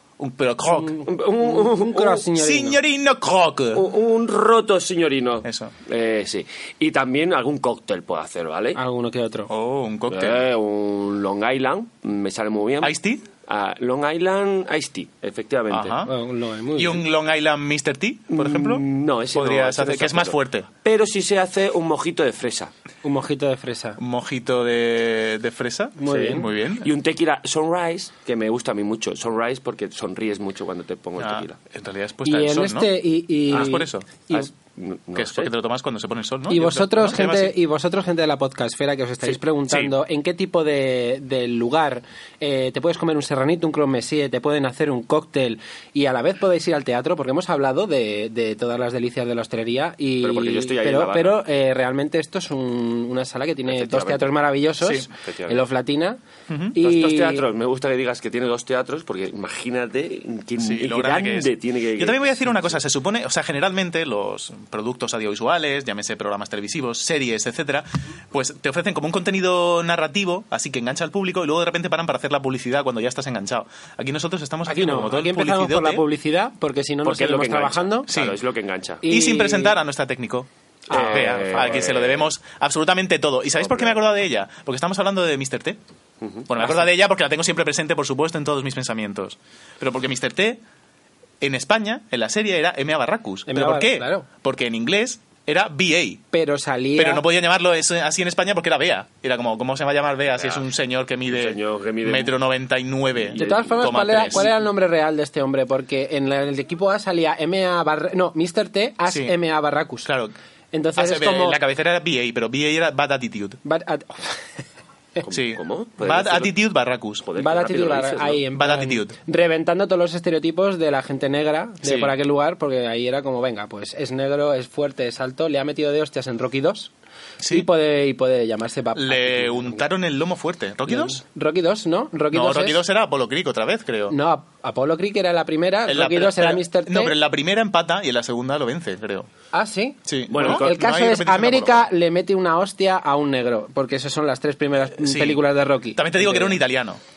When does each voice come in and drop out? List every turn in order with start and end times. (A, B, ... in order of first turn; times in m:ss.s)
0:00.2-0:01.0 A
0:00.8-0:02.8 B
0:01.1-0:02.2 C
0:02.3-0:03.8 A
0:03.7-0:08.8 C
0:05.4-0:05.7 A
0:08.7-0:09.5 B
0:09.5-0:10.4 A
0:10.1-0:12.9 C
0:12.8-0:13.2 A
0:13.4-0:16.0 C
0:15.7-0:16.1 A
0:16.1-0:17.0 B
0:16.8-0:20.7 A
0:18.3-0:22.7 C
0:23.0-0:24.0 B
0:24.0-0:26.9 A
0:26.0-0:26.4 B
0:26.8-0:31.6 C
0:31.2-0:32.9 A
0:32.2-0:34.5 B
0:33.5-0:34.1 A
0:34.3-0:35.5 C
0:35.2-0:37.5 A
0:36.5-0:56.2 B
0:50.2-0:51.4 C
0:53.7-0:54.3 C
0:55.2-0:55.6 C
0:56.5-0:56.8 A
0:56.7-0:57.4 B
0:56.8-1:02.8 C
1:00.6-1:16.0 A
1:14.6-1:18.1 B
1:17.0-1:19.0 C
1:18.1-1:18.4 A
1:19.0-1:19.8 B
1:19.0-1:25.8 A
1:20.9-1:22.3 C
1:23.6-1:24.0 C
1:26.2-1:26.9 C
1:26.5-1:30.6 A
1:31.4-1:36.2 A
1:33.5-1:34.2 B
1:36.3-1:37.2 B
1:37.0-1:44.5 A
1:40.4-1:40.7 C
1:41.3-1:42.3 C
1:43.2-1:44.5 C
1:43.4-1:50.1 B
1:50.0-1:50.3 A
1:50.7-1:51.6 B
1:51.0-1:53.6 A
1:53.6-1:54.6 B
1:55.2-1:56.6 C
1:55.3-1:57.2 A
1:57.2-1:58.4 C
1:57.4-2:06.9 B
1:58.5-1:59.1 A
2:07.4-2:07.7 A
2:07.4-2:09.8 B
2:09.0-2:11.2 A
2:10.9-2:12.8 B
2:12.3-2:14.2 A
2:14.1-2:17.2 B
2:15.9-2:19.3 A
2:19.5-2:26.6 B
2:20.0-2:21.8 A
2:20.3-2:20.7 C
2:25.0-2:25.4 A
2:25.9-2:27.0 A